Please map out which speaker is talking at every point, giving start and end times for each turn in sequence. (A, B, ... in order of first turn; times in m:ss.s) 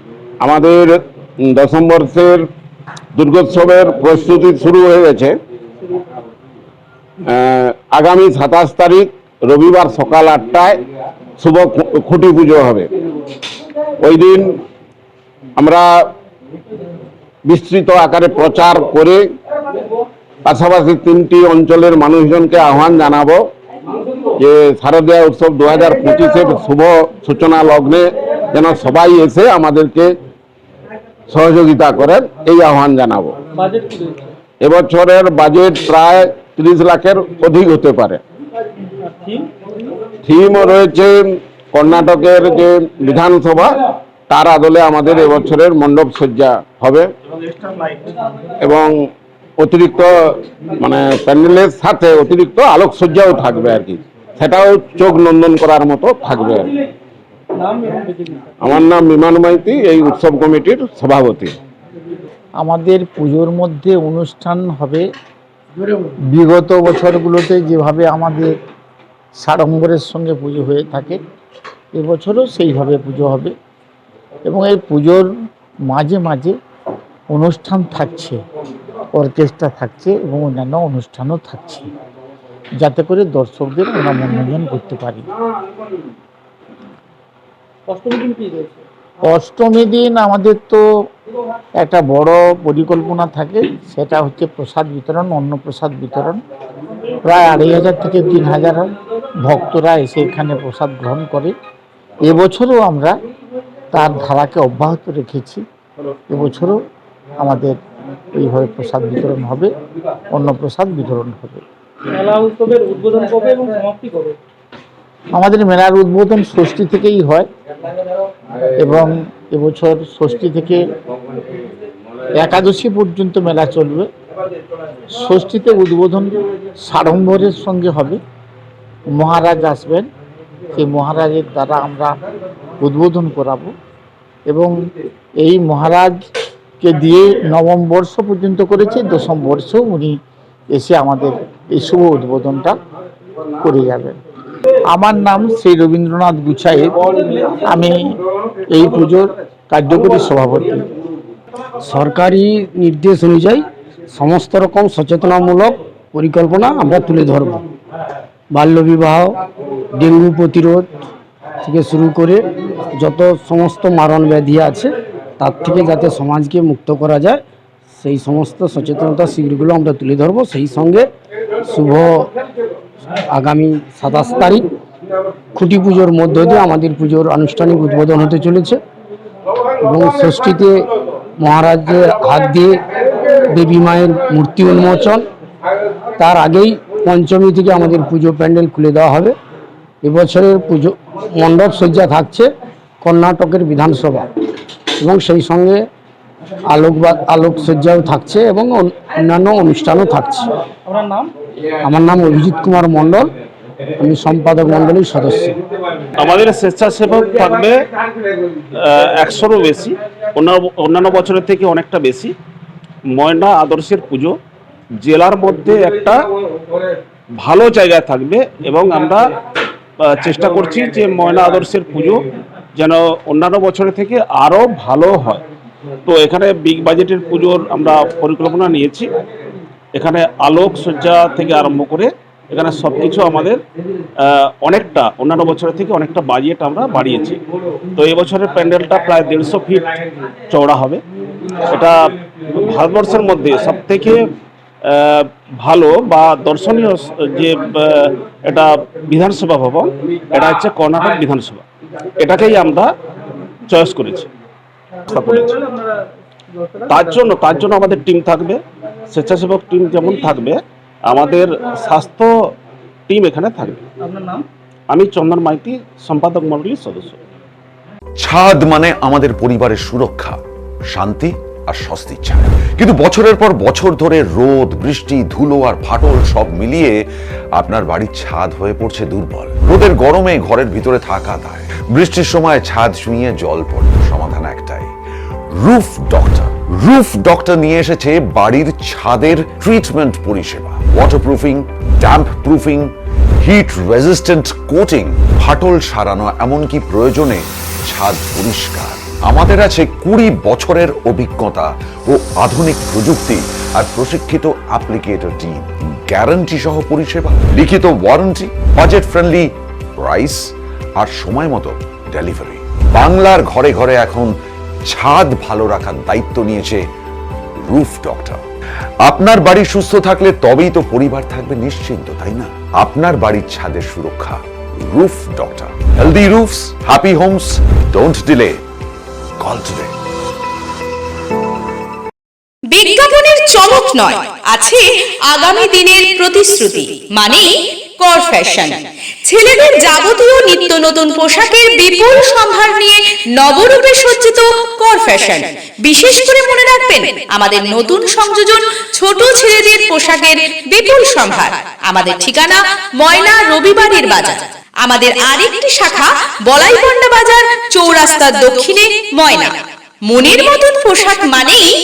0:00.4-0:02.5 A
0:03.1-0:05.4 A
0:07.2-0:10.8 A
0:11.4-0:12.9 A
0:14.0-0:14.6 A
0:15.6-0:15.9 A
0:17.4-0:19.2 A
0:20.4-0:23.4 A
0:24.4-0:30.1 A
0:31.3-0:33.4 A
0:33.6-0:34.2 B
0:34.6-0:38.2 A
0:39.1-0:39.4 B
0:40.2-0:43.8 A
0:44.3-0:47.1 A
0:47.4-0:48.1 C
0:48.6-0:49.0 A
0:49.6-0:50.1 A
0:50.8-0:56.7 A
0:57.6-0:58.4 B
0:58.6-1:01.5 A
1:02.6-1:05.0 D
1:06.3-1:08.5 D
1:09.4-1:11.2 D
1:11.9-1:13.5 D
1:14.5-1:15.3 D
1:15.9-1:16.5 D
1:17.3-1:18.4 D
1:19.2-1:21.9 D
1:22.8-1:25.3 D
1:27.9-1:28.7 B
1:29.3-1:30.8 D
1:31.8-1:36.4 D
1:37.2-1:38.9 D
1:39.4-1:41.5 D
1:42.2-1:43.2 D
1:43.9-1:45.6 D
1:46.3-1:46.8 D
1:47.4-1:47.8 D
1:48.3-1:49.7 D
1:50.3-1:51.6 D
1:52.2-1:54.3 B
1:55.3-1:57.5 D
1:58.8-2:00.8 D
2:02.4-2:04.1 D
2:05.1-2:08.2 D
2:09.1-2:10.1 D
2:10.7-2:12.1 D
2:12.8-2:13.7 D
2:15.4-2:16.1 D
2:16.8-2:20.2 D
2:20.7-2:22.8 D
2:23.6-2:24.1 D
2:24.9-2:27.0 D
2:27.6-2:28.1 D
2:28.7-2:30.9 D
2:31.8-2:37.6 E
2:38.5-2:39.4 E
2:40.0-2:40.9 E
2:41.6-2:47.4 E
2:48.0-2:51.1 E
2:51.6-2:52.3 E
2:53.3-2:54.7 E
2:55.5-2:58.8 E
2:59.8-3:02.8 E
3:03.5-3:05.3 E
3:06.2-3:09.4 E
3:10.0-3:14.3 E
3:15.0-3:15.8 E
3:16.7-3:20.5 E
3:21.8-3:23.3 E
3:24.0-3:25.6 E
3:26.2-3:27.8 C
3:28.8-3:32.3 C
3:33.1-3:34.3 C
3:35.0-3:36.2 C
3:37.4-3:39.3 C
3:40.0-3:42.2 C
3:42.8-3:45.4 C
3:46.0-3:49.1 C
3:49.9-3:53.6 C
3:54.2-3:57.4 C
3:57.9-3:59.9 C
4:00.5-4:01.0 C
4:01.7-4:04.2 C
4:04.8-4:11.6 C
4:12.2-4:12.9 C
4:13.7-4:14.3 C
4:15.1-4:15.6 C
4:16.9-4:22.5 C
4:23.1-4:23.9 C
4:24.1-4:24.4 B
4:24.9-4:27.2 C
4:28.2-4:30.4 F
4:30.9-4:37.0 F
4:37.6-4:44.9 F
4:45.6-5:14.3 F
5:14.9-5:16.8 F
5:17.7-5:18.4 F
5:19.0-5:28.6 F
5:29.4-5:29.9 F
5:32.7-5:59.6 G
6:00.1-6:01.7 G